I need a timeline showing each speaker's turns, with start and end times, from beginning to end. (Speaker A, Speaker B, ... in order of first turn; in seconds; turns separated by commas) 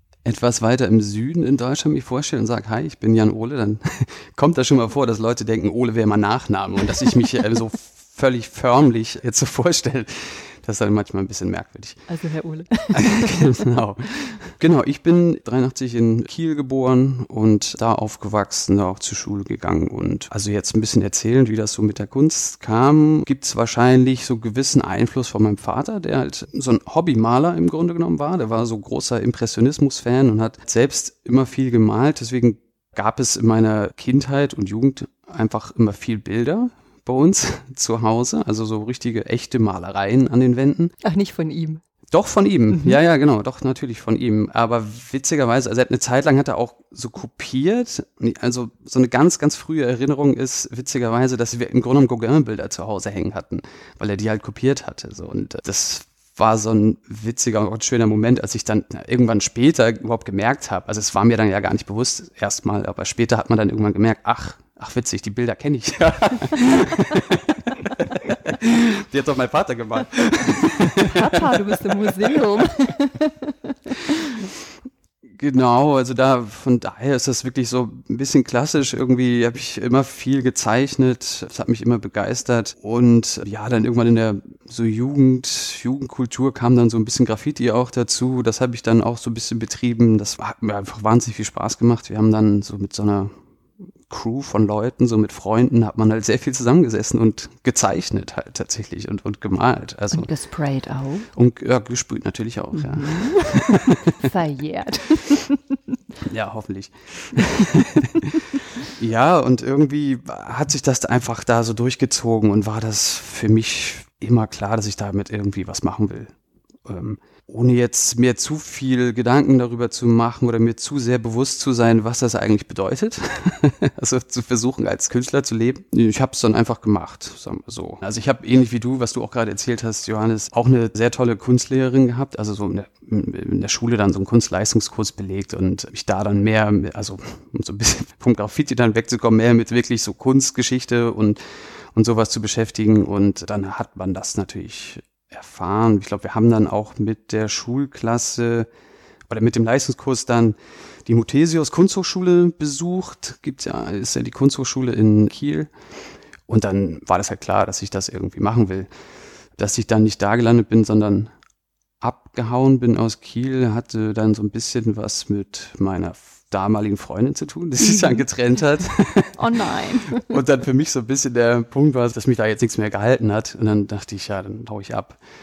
Speaker A: 0.2-12.1, Speaker B: 12.1-13.6, Speaker A: 12.9-40.9, Speaker B: 41.0-41.8, Speaker A: 42.1-72.3, Speaker B: 71.0-74.3, Speaker A: 75.4-93.3, Speaker A: 94.1-100.3, Speaker B: 100.1-101.3, Speaker A: 101.3-104.1, Speaker B: 102.8-105.6, Speaker A: 106.2-116.3, Speaker A: 116.9-141.4, Speaker A: 141.9-148.7, Speaker A: 149.3-155.7, Speaker A: 156.5-158.9, Speaker A: 159.6-161.3, Speaker A: 162.0-175.2, Speaker B: 167.8-168.2, Speaker B: 169.4-170.3